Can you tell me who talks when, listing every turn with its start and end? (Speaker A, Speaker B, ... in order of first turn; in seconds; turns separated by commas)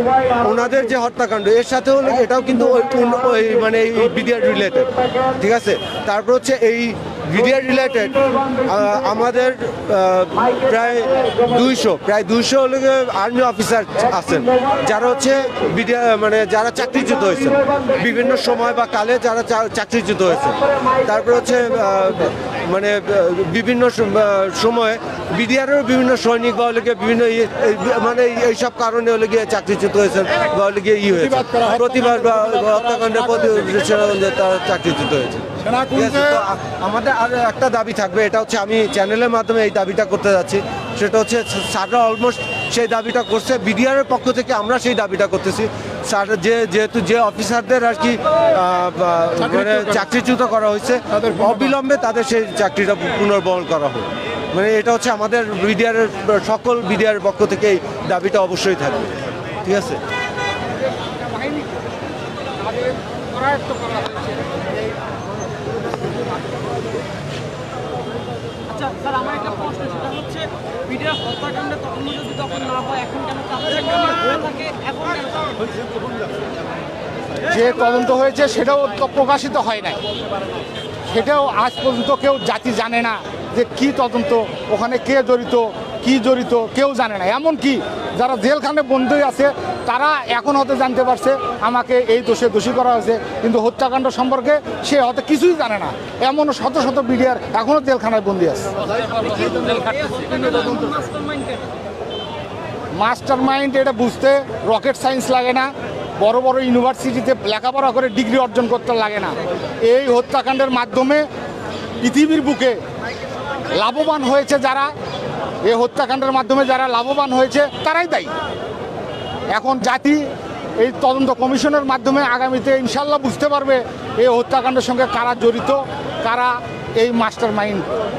Speaker A: 0.3-60.0, Speaker B: 61.0-61.8, Speaker B: 62.7-64.4, Speaker C: 68.7-75.7, Speaker B: 77.5-80.0, Speaker B: 81.1-98.7, Speaker C: 99.1-101.7, Speaker B: 103.0-111.3, Speaker B: 112.0-112.8, Speaker B: 113.7-114.9, Speaker B: 115.7-118.3, Speaker B: 119.5-120.3, Speaker B: 120.8-128.0